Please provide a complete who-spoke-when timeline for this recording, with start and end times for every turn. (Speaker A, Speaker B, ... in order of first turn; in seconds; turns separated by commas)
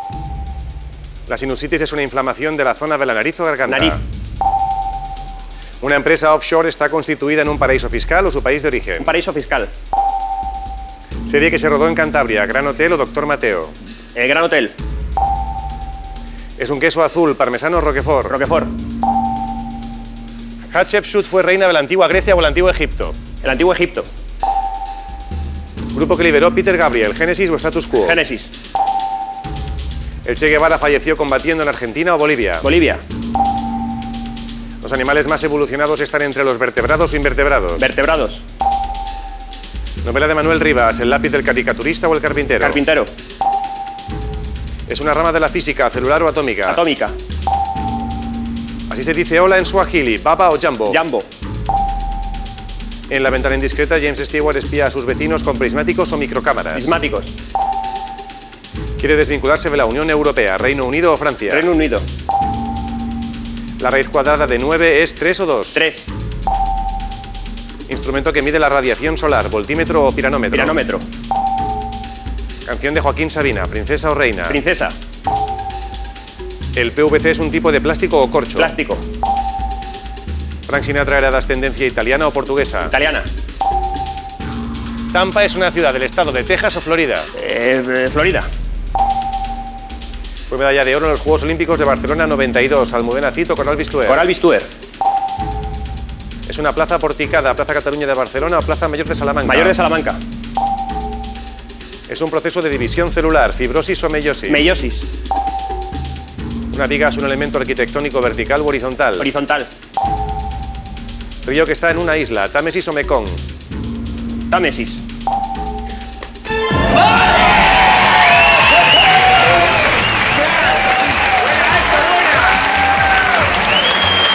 Speaker A: 1.3-4.0, Speaker B: 3.7-4.0, Speaker A: 5.8-9.1, Speaker B: 9.0-9.7, Speaker A: 11.3-13.7, Speaker B: 14.2-14.7, Speaker A: 16.6-18.4, Speaker B: 18.3-18.7, Speaker A: 20.7-23.2, Speaker B: 23.4-24.1, Speaker A: 25.9-28.2, Speaker B: 27.9-28.5, Speaker A: 30.2-32.7, Speaker B: 32.6-33.0, Speaker A: 34.8-37.9, Speaker B: 37.8-38.4, Speaker A: 40.0-42.8, Speaker B: 42.6-43.1, Speaker A: 44.9-46.8, Speaker B: 46.7-47.2, Speaker A: 48.9-51.0, Speaker B: 50.9-51.3, Speaker A: 53.1-56.9, Speaker B: 56.7-57.4, Speaker A: 59.0-61.7, Speaker B: 61.5-62.0, Speaker A: 63.8-65.8, Speaker B: 65.7-66.1, Speaker A: 67.9-70.8, Speaker B: 70.5-71.1, Speaker A: 72.7-74.6, Speaker B: 74.5-75.0, Speaker A: 76.8-78.8, Speaker B: 78.6-79.0, Speaker A: 80.7-82.9, Speaker B: 82.8-83.3, Speaker A: 85.1-87.3, Speaker B: 87.3-88.5, Speaker A: 90.5-94.3, Speaker B: 94.1-94.7, Speaker A: 96.5-99.8, Speaker B: 99.5-100.2, Speaker A: 102.1-104.7, Speaker B: 104.5-105.1, Speaker A: 106.7-109.3, Speaker B: 109.2-109.7, Speaker A: 111.5-113.4, Speaker B: 114.5-115.0